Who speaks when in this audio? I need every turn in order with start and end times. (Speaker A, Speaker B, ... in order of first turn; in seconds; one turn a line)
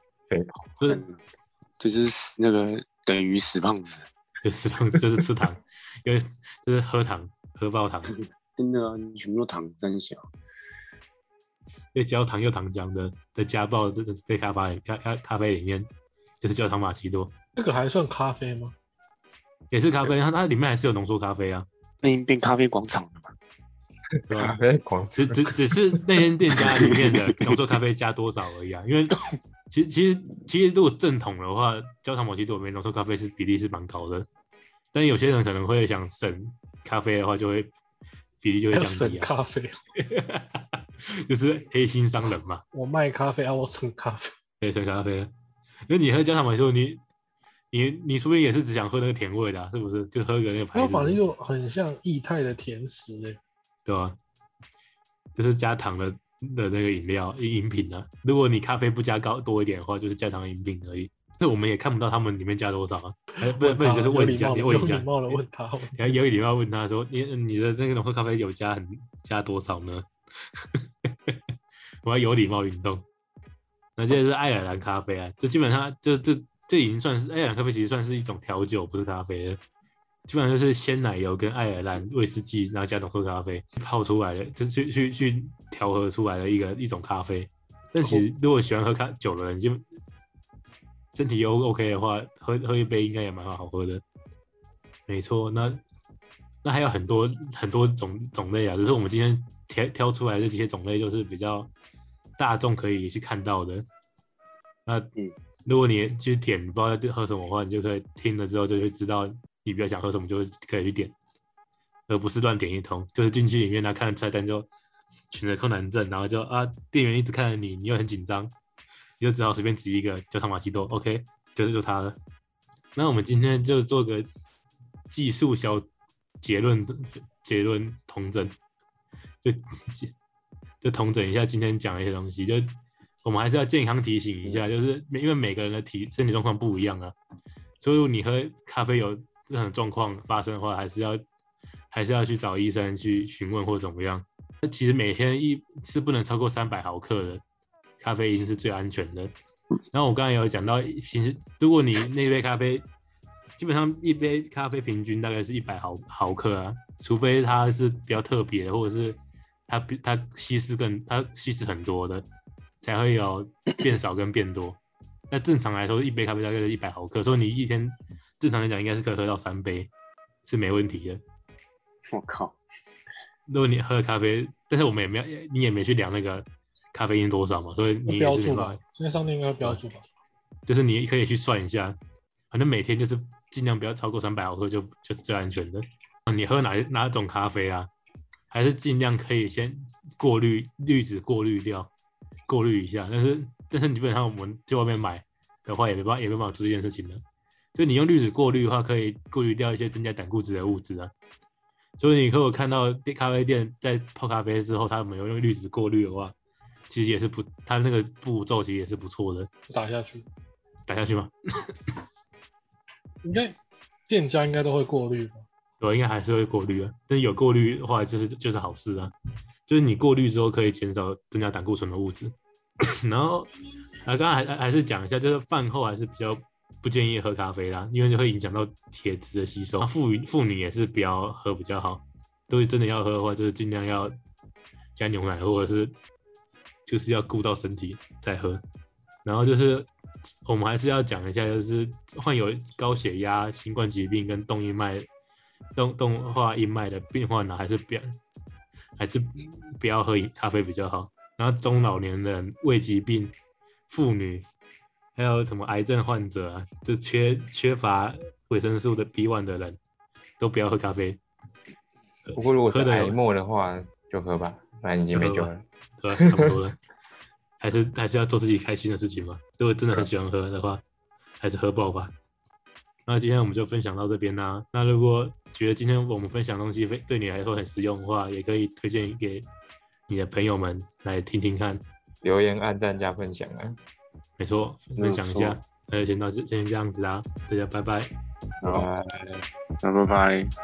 Speaker A: 0.3-0.7
Speaker B: 0.8-1.2
Speaker B: 1.8-4.1
Speaker C: 4.4-8.2
Speaker B: 8.6-10.3
Speaker C: 11.9-15.9
Speaker C: 16.4-17.3
Speaker D: 17.6-18.7
Speaker C: 19.7-21.7
Speaker B: 22.0-23.3
Speaker C: 24.3-24.6
Speaker A: 24.3-26.0
Speaker C: 25.2-34.3
Speaker B: 26.8-27.5
Speaker C: 34.9-37.7
Speaker C: 38.4-39.3
Speaker D: 38.7-39.8
Speaker C: 40.0-42.6
Speaker D: 42.7-44.3
Speaker C: 44.6-45.3
Speaker C: 45.9-47.0
Speaker C: 47.7-51.2
Speaker D: 50.7-53.4
Speaker C: 53.8-54.2
Speaker C: 55.3-65.4
Speaker D: 63.3-66.2
Speaker C: 65.9-71.4
Speaker C: 72.0-73.0
Speaker C: 74.0-79.6
Speaker C: 80.3-89.8
Speaker D: 88.0-88.2
Speaker C: 91.1-94.0
Speaker C: 95.1-95.8
Speaker C: 96.6-101.7
Speaker C: 102.4-103.8
Speaker C: 105.7-111.1
Speaker C: 112.1-114.7
Speaker C: 115.3-118.5
Speaker C: 119.2-122.2
Speaker C: 123.0-124.3
Speaker C: 125.1-125.9
Speaker C: 126.4-128.6
Speaker C: 129.4-130.1
Speaker C: 130.8-137.1
Speaker C: 137.8-141.2
Speaker C: 141.9-147.4
Speaker C: 148.0-149.3
Speaker C: 149.9-152.8
Speaker C: 153.6-162.2
Speaker C: 162.8-164.8
Speaker C: 165.3-169.9
Speaker C: 170.4-171.2
Speaker B: 172.1-172.6
Speaker C: 173.5-178.8
Speaker D: 178.1-180.0
Speaker C: 180.7-181.9
Speaker C: 182.5-187.9
Speaker C: 188.5-191.9
Speaker C: 192.5-197.2
Speaker C: 197.7-201.1
Speaker C: 202.0-206.3
Speaker C: 206.9-209.5
Speaker D: 209.7-210.3
Speaker C: 210.9-211.7
Speaker D: 213.2-215.4
Speaker C: 215.8-219.1
Speaker C: 219.7-234.1
Speaker C: 234.9-235.9
Speaker C: 236.8-238.6
Speaker C: 239.2-239.9
Speaker C: 240.4-245.1
Speaker C: 245.8-248.2
Speaker C: 249.0-253.3
Speaker C: 253.9-254.4
Speaker C: 255.2-259.8
Speaker C: 260.4-261.2
Speaker C: 262.3-263.1
Speaker A: 262.3-265.6
Speaker C: 265.1-266.8
Speaker A: 266.1-266.6
Speaker C: 267.6-270.8
Speaker C: 271.4-272.1
Speaker C: 273.1-279.5
Speaker C: 280.1-281.8
Speaker A: 282.2-283.8
Speaker C: 284.4-288.1
Speaker B: 285.0-285.6
Speaker B: 288.6-288.9
Speaker A: 288.6-289.4
Speaker B: 289.8-290.5